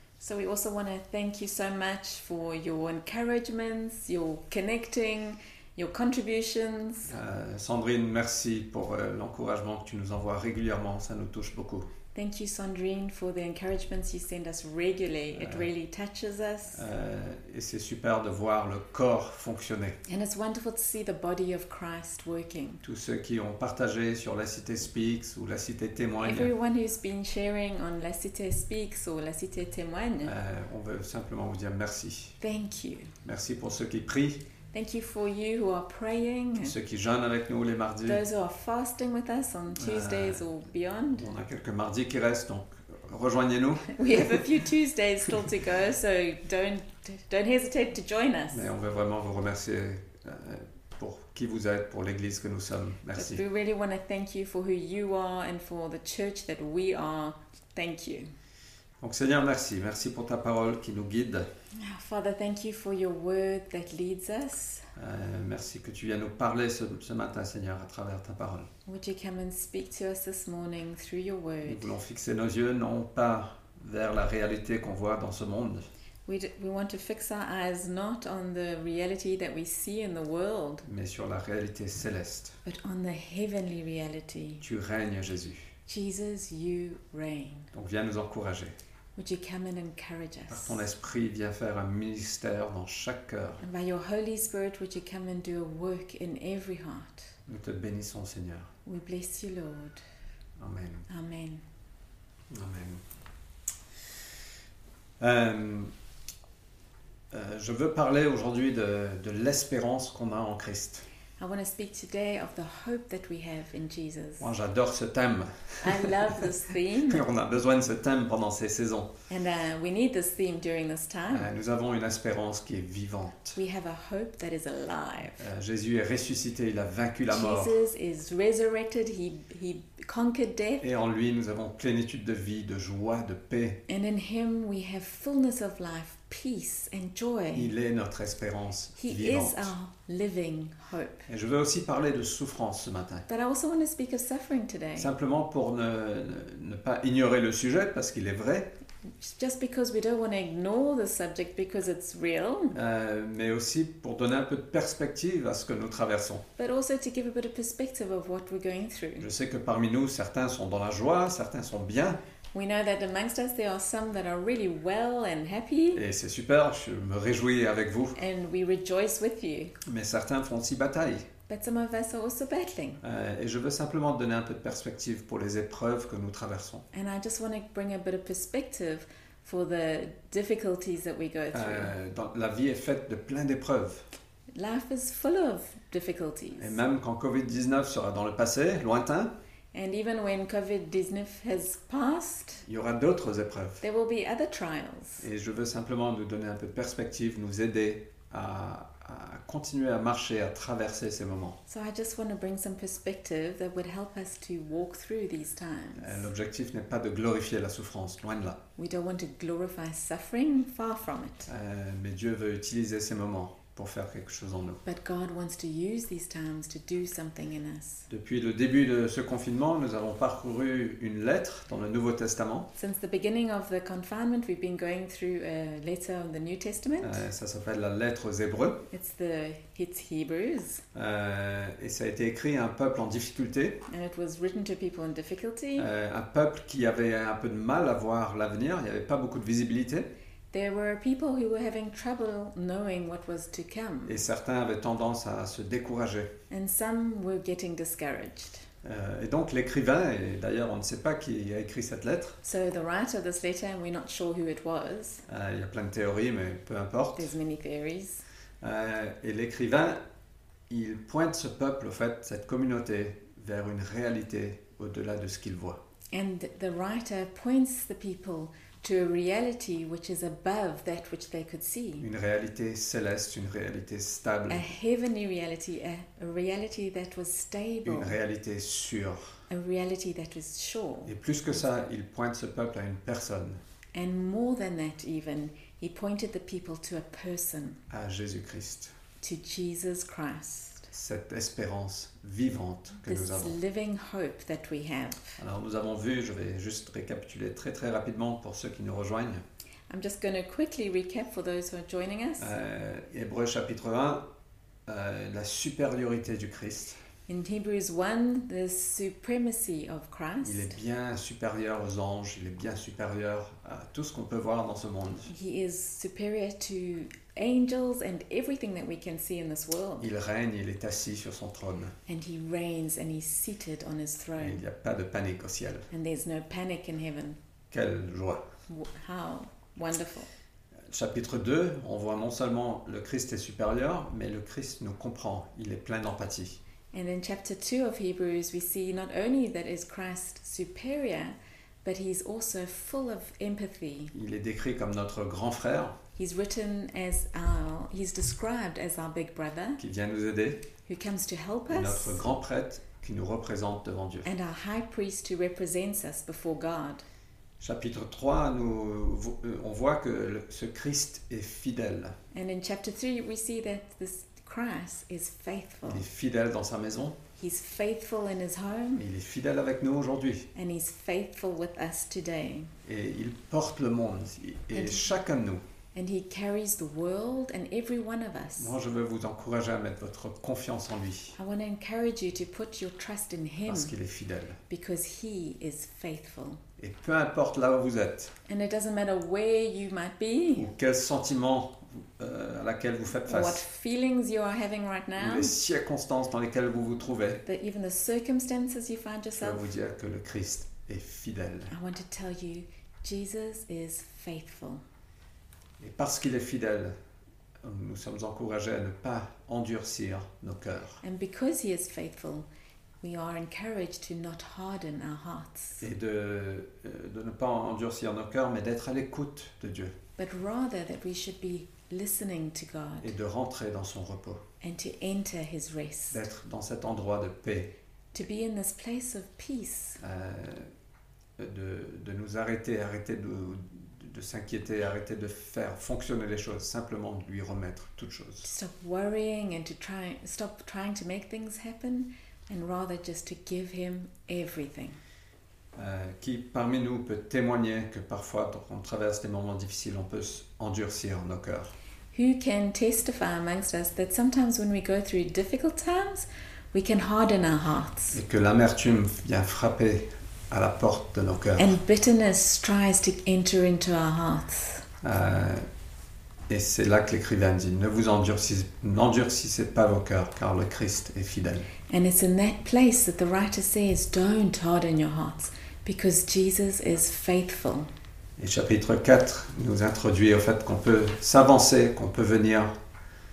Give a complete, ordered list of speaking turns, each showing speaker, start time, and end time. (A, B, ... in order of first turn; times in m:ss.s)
0:00.2-0:07.1 A
0:07.1-0:11.9 B
0:12.1-0:16.8 A
0:15.3-0:15.7 B
0:16.7-0:20.0 B
0:20.1-0:22.8 A
0:22.8-0:26.5 B
0:26.2-0:30.3 A
0:30.2-0:32.4 B
0:32.4-0:33.1 A
0:33.2-0:34.4 B
0:34.7-0:36.8 A
0:36.6-0:38.2 B
0:38.0-0:41.2 A
0:39.8-0:40.4 B
0:41.1-0:44.2 B
0:43.9-0:48.6 A
0:48.5-0:53.4 B
0:53.1-0:58.3 A
0:59.0-1:01.5 B
1:01.8-1:04.8 A
1:05.0-1:08.7 B
1:08.8-1:11.9 A
1:11.6-1:15.8 B
1:16.2-1:20.8 A
1:20.8-1:22.6 B
1:22.6-1:24.6 A
1:24.6-1:25.7 B
1:25.9-1:27.7 A
1:27.7-1:28.7 B
1:29.2-1:30.8 A
1:30.5-1:33.6 B
1:33.6-1:37.3 A
1:37.5-1:38.7 B
1:38.8-1:40.0 A
1:40.6-1:41.1 B
1:41.1-1:41.6 A
1:42.5-1:43.0 B
1:45.2-1:45.9 B
1:47.3-1:51.0 B
1:51.4-1:54.5 A
1:54.4-1:56.5 B
1:55.8-1:57.2 A
1:57.0-1:59.1 B
1:59.3-2:01.5 A
2:01.3-2:03.6 B
2:03.6-2:05.4 A
2:05.4-2:07.8 B
2:07.3-2:10.8 A
2:10.8-2:13.8 B
2:13.9-2:17.7 A
2:17.5-2:19.7 B
2:19.0-2:21.2 A
2:21.3-2:23.2 B
2:23.3-2:25.1 A
2:25.0-2:28.7 B
2:29.2-2:32.8 A
2:32.7-2:36.4 B
2:36.6-2:39.3 A
2:39.2-2:42.2 B
2:42.5-2:46.0 A
2:45.9-2:48.2 B
2:48.1-2:49.7 A
2:49.8-2:51.3 B
2:51.5-2:53.0 A
2:53.0-2:56.8 B
2:56.9-3:01.9 A
3:01.5-3:04.0 B
3:04.5-3:06.7 A
3:06.6-3:09.3 B
3:09.7-3:12.6 A
3:12.6-3:13.8 B
3:13.8-3:15.2 A
3:15.2-3:21.6 B
3:21.7-3:26.3 A
3:26.0-3:28.6 B
3:28.8-3:31.5 A
3:31.5-3:34.8 B
3:34.8-3:38.1 A
3:38.1-3:42.7 B
3:42.8-3:47.2 A
3:47.0-3:48.8 B
3:48.9-3:50.8 A
3:50.9-3:53.8 B
3:53.9-3:55.9 A
3:55.8-4:00.1 B
4:00.5-4:04.2 A
4:04.0-4:06.3 B
4:06.5-4:08.6 A
4:08.8-4:12.4 B
4:12.4-4:15.2 A
4:15.3-4:17.3 B
4:17.2-4:18.2 A
4:18.6-4:20.0 B
4:20.7-4:25.8 B
4:26.1-4:32.1 A
4:32.0-4:34.7 B
4:34.5-4:38.2 A
4:37.8-4:39.4 B
4:39.5-4:41.1 A
4:41.0-4:43.6 B
4:43.9-4:47.8 A
4:47.9-4:48.9 B
4:49.2-4:50.9 A
4:50.9-4:53.6 B
4:53.0-4:55.4 A
4:55.4-4:59.4 B
4:59.9-5:02.5 A
5:02.4-5:04.2 B
5:04.9-5:07.0 B
5:07.3-5:10.8 A
5:10.4-5:15.3 B
5:15.3-5:20.1 A
5:20.0-5:21.9 B
5:22.1-5:24.6 A
5:24.4-5:25.9 B
5:25.9-5:27.4 A
5:27.7-5:28.4 B
5:28.7-5:30.3 A
5:30.9-5:36.6 B
5:36.9-5:44.1 A
5:44.1-5:46.0 B
5:46.2-5:49.8 A
5:49.8-5:50.6 B
5:50.8-5:52.3 A
5:51.7-5:54.3 B
5:54.2-5:57.0 A
5:57.6-6:02.1 B
6:02.3-6:06.0 A
6:05.8-6:07.2 B
6:07.4-6:09.0 A
6:09.0-6:10.5 B
6:10.5-6:12.7 A
6:12.8-6:15.6 B
6:14.7-6:15.0 A
6:15.9-6:18.7 A
6:18.6-6:21.4 B
6:21.4-6:23.9 A
6:23.7-6:24.6 B
6:24.7-6:26.6 A
6:26.8-6:28.3 B
6:28.5-6:30.7 A
6:30.6-6:33.6 B
6:33.3-6:35.5 A
6:35.2-6:37.4 B
6:37.4-6:39.6 A
6:39.3-6:41.7 B
6:41.7-6:44.8 A
6:45.8-6:46.9 B
6:47.6-6:51.0 B
6:51.0-6:52.4 A
6:53.0-6:55.8 A
6:55.8-7:00.0 B
7:00.2-7:03.1 A
7:03.0-7:04.4 B
7:04.6-7:06.2 A
7:06.1-7:07.7 B
7:08.1-7:10.0 A
7:10.0-7:10.7 B
7:11.4-7:18.5 B
7:18.4-7:25.0 A
7:25.8-7:31.7 B
7:32.1-7:38.2 A
7:38.1-7:41.7 B
7:41.6-7:44.8 A
7:45.0-7:45.6 B
7:46.5-7:51.7 B
7:51.9-7:57.9 A
7:58.4-8:02.7 B